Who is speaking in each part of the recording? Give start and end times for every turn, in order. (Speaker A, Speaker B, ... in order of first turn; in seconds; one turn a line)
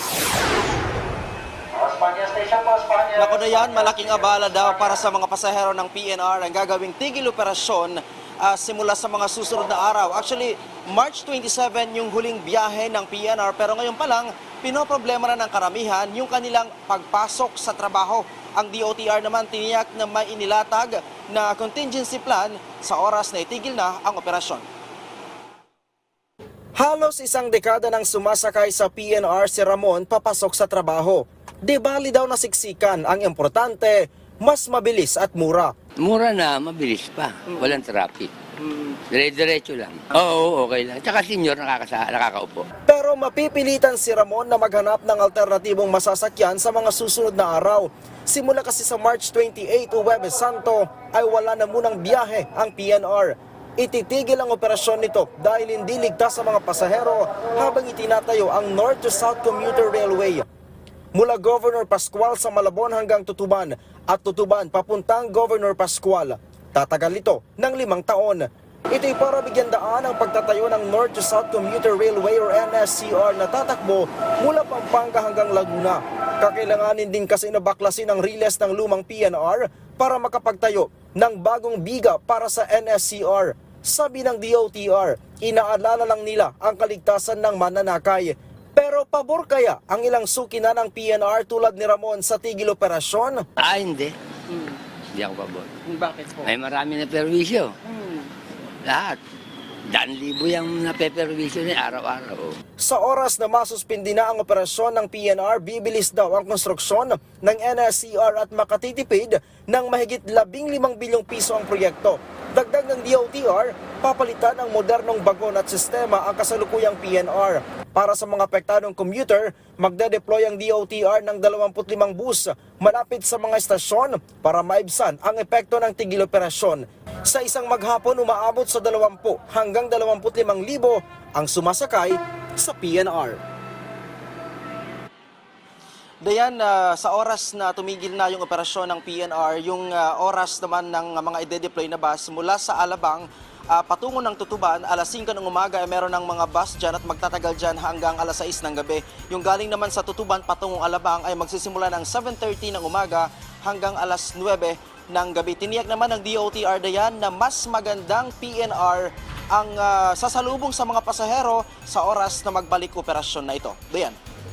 Speaker A: 1.8-3.7
Speaker B: 3.2-24.6
Speaker B: 26.8-35.7
Speaker C: 36.0-38.3
Speaker A: 38.6-39.0
Speaker C: 39.1-42.7
Speaker B: 42.9-60.5
Speaker B: 61.1-93.4
Speaker C: 93.6-94.1
Speaker C: 95.1-95.7
Speaker A: 95.9-96.5
Speaker C: 96.4-97.7
Speaker A: 97.9-98.3
Speaker C: 98.8-99.2
Speaker C: 99.9-102.5
Speaker B: 102.8-133.4
Speaker B: 136.2-164.2